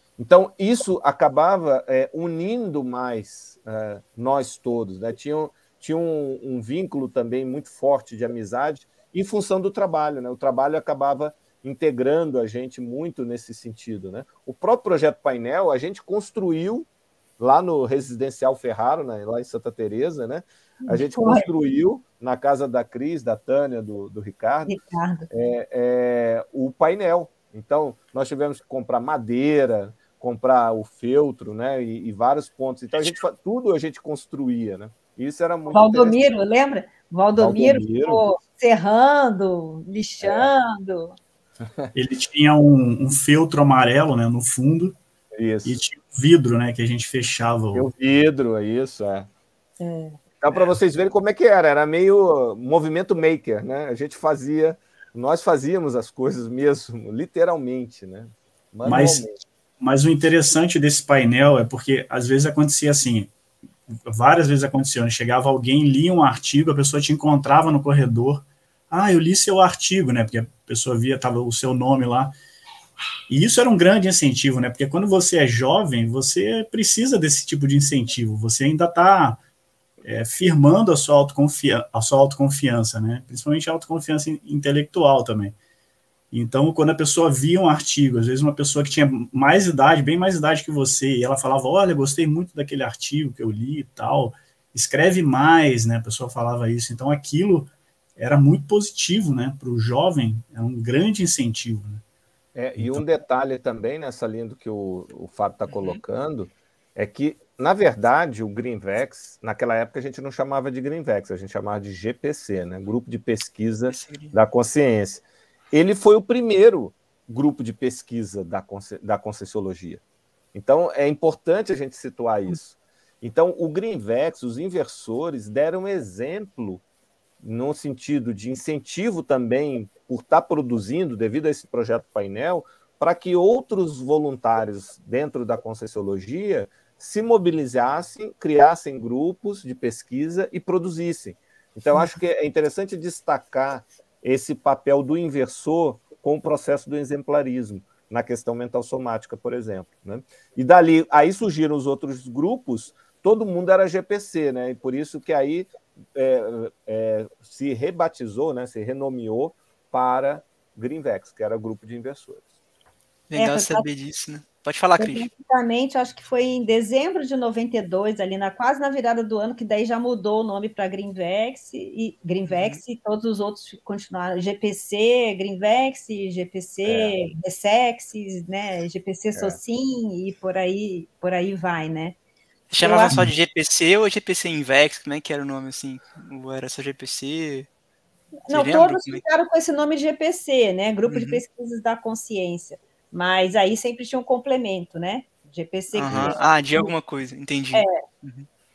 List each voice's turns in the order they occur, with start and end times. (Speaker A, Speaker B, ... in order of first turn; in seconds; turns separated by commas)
Speaker A: 0.2-16.9, Speaker A: 17.4-36.2, Speaker B: 20.9-21.5, Speaker B: 24.7-25.3, Speaker B: 35.7-41.2, Speaker A: 37.4-38.2, Speaker A: 40.2-40.5, Speaker A: 41.6-41.9, Speaker C: 41.9-45.0, Speaker A: 45.3-45.8, Speaker C: 45.6-47.9, Speaker A: 47.7-49.3, Speaker B: 49.8-50.2, Speaker A: 50.4-59.4, Speaker C: 58.9-59.3, Speaker C: 59.8-63.3, Speaker C: 64.1-72.3, Speaker C: 73.3-79.4, Speaker C: 80.0-85.5, Speaker C: 86.3-102.0, Speaker A: 102.5-120.0, Speaker C: 102.8-103.0, Speaker D: 105.7-106.0, Speaker D: 113.9-114.3, Speaker A: 120.5-126.8, Speaker A: 127.4-162.4, Speaker D: 163.3-165.3, Speaker B: 163.3-163.9, Speaker B: 165.0-182.2, Speaker D: 172.5-172.8, Speaker A: 176.8-177.2, Speaker D: 182.7-187.7, Speaker B: 182.8-183.2, Speaker B: 188.5-196.9, Speaker D: 188.5-189.2, Speaker D: 191.1-191.4, Speaker D: 195.9-198.5, Speaker A: 196.1-196.4, Speaker B: 197.7-198.0